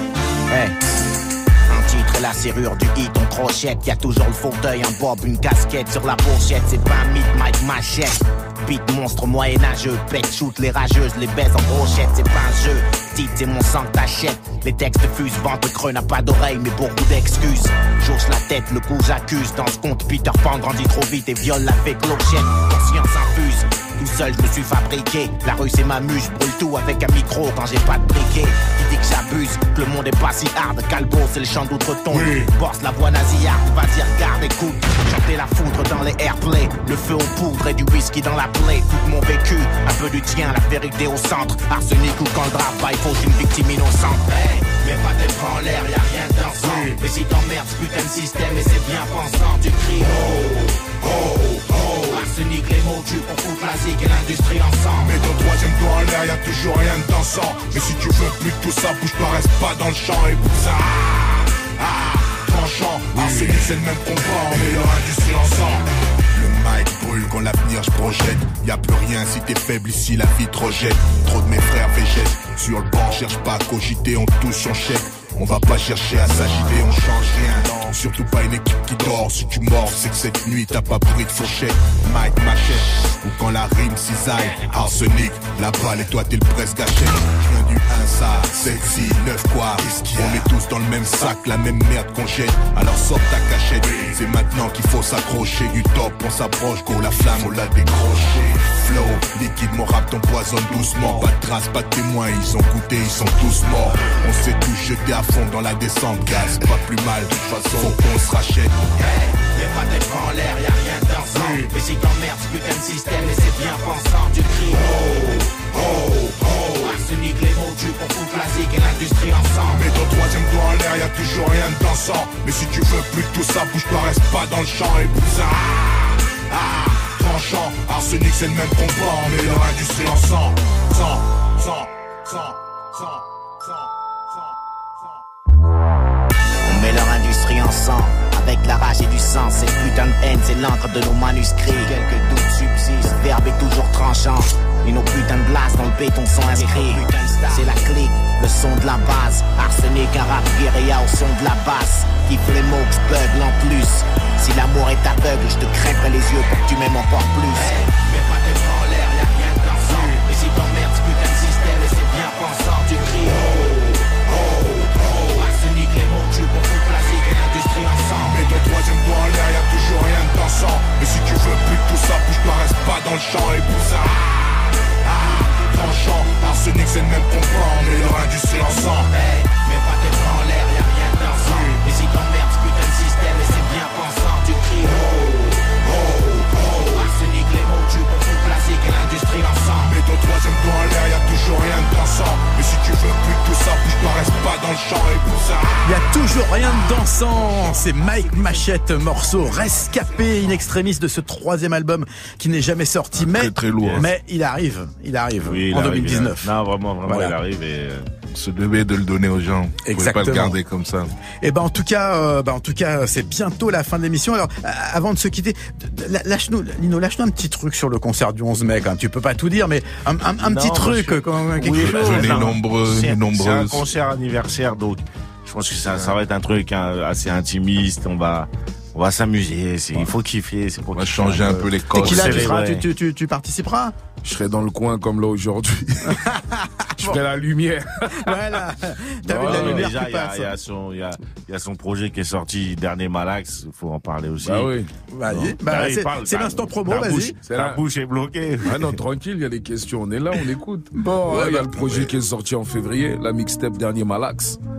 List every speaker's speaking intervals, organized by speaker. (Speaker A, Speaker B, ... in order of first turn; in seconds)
Speaker A: 0.5-0.8, 1.7-50.7, 51.8-55.2, 109.0-115.6, 116.5-119.9, 136.6-163.7, 165.1-168.5, 178.9-185.2, 186.7-190.0
Speaker B: 32.1-32.5, 46.6-47.0, 51.2-51.9, 55.0-108.9, 111.3-111.7, 115.8-116.9, 119.7-133.2, 168.2-174.4, 175.2-179.1, 181.4-181.8, 186.1-186.8, 189.8-195.9
Speaker C: 90.2-90.4, 203.8-204.1, 205.4-208.1, 220.4-232.9, 239.2-244.7, 245.7-248.9
Speaker D: 195.8-206.5, 207.1-207.4, 209.9-210.6, 211.4-222.5, 231.9-233.9, 236.1-237.2, 238.1-240.5, 245.1-247.4, 250.9-252.1
Speaker E: 203.2-204.1, 208.3-211.1, 221.8-223.9, 230.9-232.5
Speaker F: 234.2-236.2, 237.0-238.1, 239.3-239.9, 244.4-244.9, 247.5-247.8, 248.6-254.6